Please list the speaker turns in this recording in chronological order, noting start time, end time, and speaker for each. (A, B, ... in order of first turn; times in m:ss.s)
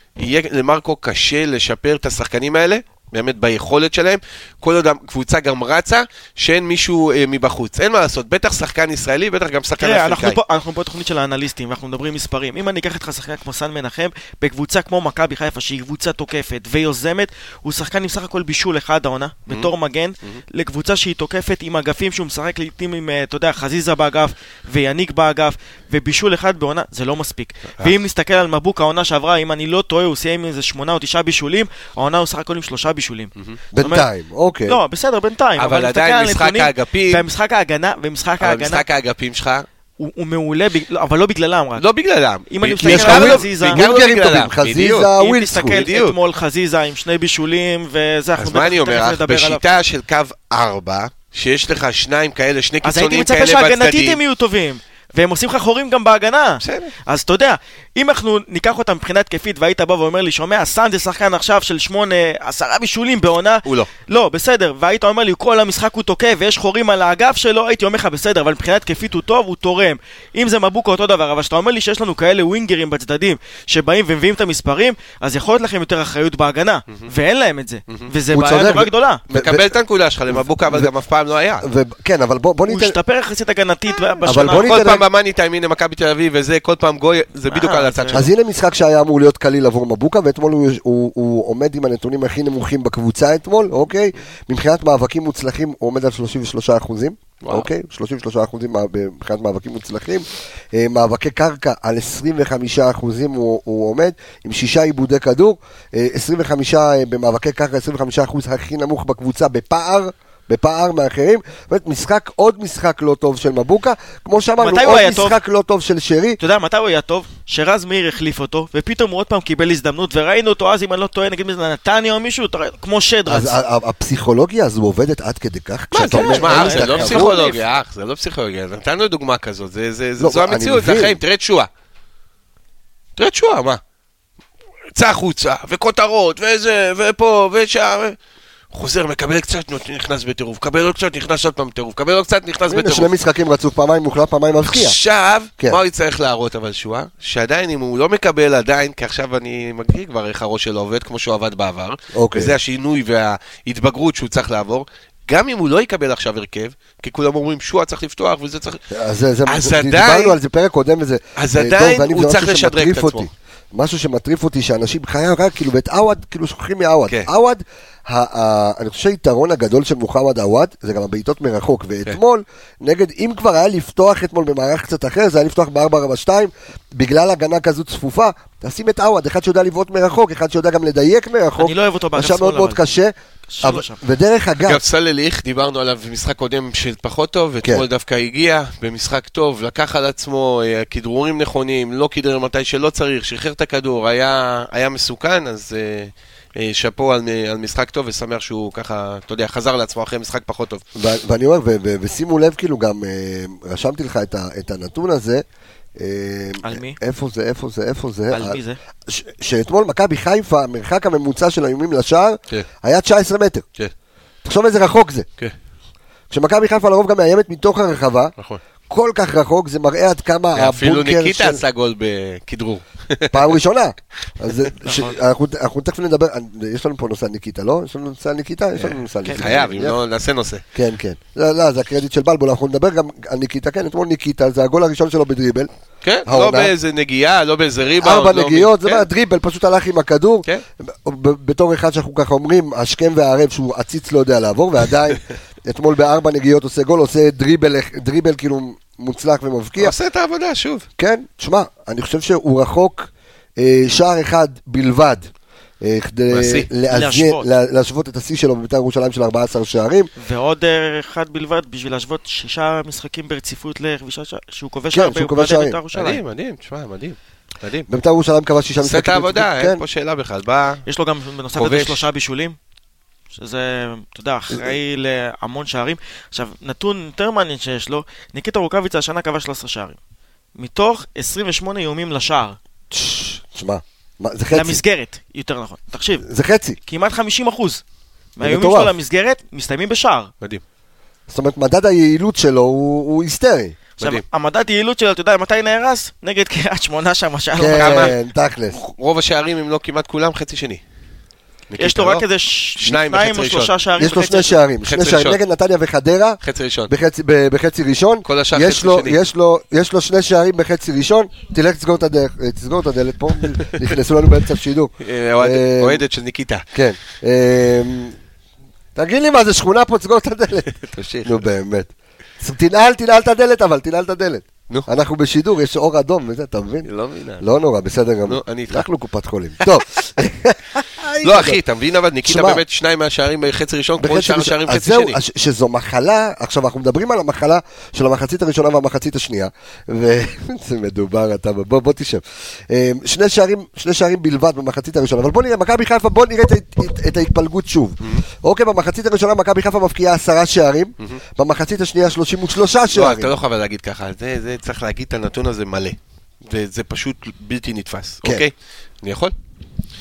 0:00.2-0:10.4 A
0:09.8-0:34.1 B
0:33.7-0:34.8 C
0:34.7-0:38.8 B
0:35.6-0:37.2 A
0:38.4-0:39.7 A
0:40.0-0:41.8 B
0:41.8-0:45.1 A
0:42.5-0:43.8 B
0:42.8-0:45.8 C
0:45.2-0:49.6 B
0:45.7-0:46.2 A
0:48.4-0:54.2 A
0:52.8-1:19.2 B
0:56.6-0:56.9 A
1:18.3-1:19.7 C
1:19.3-1:21.6 A
1:20.3-1:20.9 C
1:21.6-1:23.0 C
1:22.7-1:24.8 B
1:24.3-1:25.0 C
1:24.3-1:28.3 A
1:27.5-1:28.3 B
1:28.1-1:56.4 C
1:37.4-1:37.7 A
1:54.6-1:55.4 B
1:56.4-2:03.6 B
2:03.3-2:07.3 C
2:05.9-2:11.7 A
2:06.1-2:07.6 B
2:10.2-2:11.2 C
2:13.2-2:13.8 A
2:14.9-2:18.2 A
2:18.7-2:23.1 A
2:22.7-2:25.0 C
2:24.6-2:38.8 A
2:32.1-2:32.6 C
2:38.9-3:04.8 C
2:39.5-2:40.4 A
2:41.4-2:43.3 A
3:01.6-3:02.8 B
3:03.5-3:04.0 B
3:04.6-3:20.8 A
3:21.0-3:25.4 C
3:26.0-3:33.6 C
3:26.6-3:27.0 B
3:28.3-3:28.8 B
3:34.4-3:35.3 C
3:36.3-3:38.4 C
3:38.9-3:41.6 C
3:40.5-3:43.6 A
3:43.3-3:50.0 C
3:44.8-3:45.1 B
3:48.8-3:50.6 A
3:49.2-3:49.5 B
3:50.8-3:55.7 C
3:56.0-3:59.1 A
3:56.3-3:56.7 C
3:58.0-4:10.0 C
4:09.8-4:10.9 A
4:11.0-4:15.3 C
4:15.8-4:20.1 C
4:16.3-4:16.7 A
4:16.9-4:17.5 B
4:20.2-4:26.2 B
4:24.9-4:25.8 C
4:25.9-4:27.9 A
4:27.9-4:29.8 C
4:28.8-4:30.8 A
4:30.9-4:32.6 B
4:31.6-4:32.1 A
4:33.3-4:40.0 B
4:40.6-4:42.6 B
4:42.9-4:44.8 C
4:44.5-4:46.3 B
4:46.2-4:46.8 C
4:46.9-4:47.8 B
4:48.4-4:50.3 B
4:48.4-4:48.9 C
4:51.3-4:53.8 C
4:54.0-4:58.1 B
4:57.6-4:58.8 C
4:57.7-4:58.1 A
4:58.7-5:00.8 A
5:01.7-5:02.2 A
5:01.8-5:04.6 B
5:02.8-5:03.7 A
5:04.0-5:16.0 C
5:04.8-5:05.4 A
5:06.4-5:06.9 A
5:08.3-5:09.2 A
5:15.0-5:16.6 A
5:16.7-5:18.1 C
5:19.0-5:20.7 C
5:20.8-5:21.4 A
5:21.2-5:26.9 C
5:26.8-5:27.4 A
5:27.4-5:31.6 C
5:28.3-5:28.9 A
5:31.2-5:35.2 A
5:32.2-5:32.6 C
5:34.0-5:53.3 C
5:52.9-5:59.3 A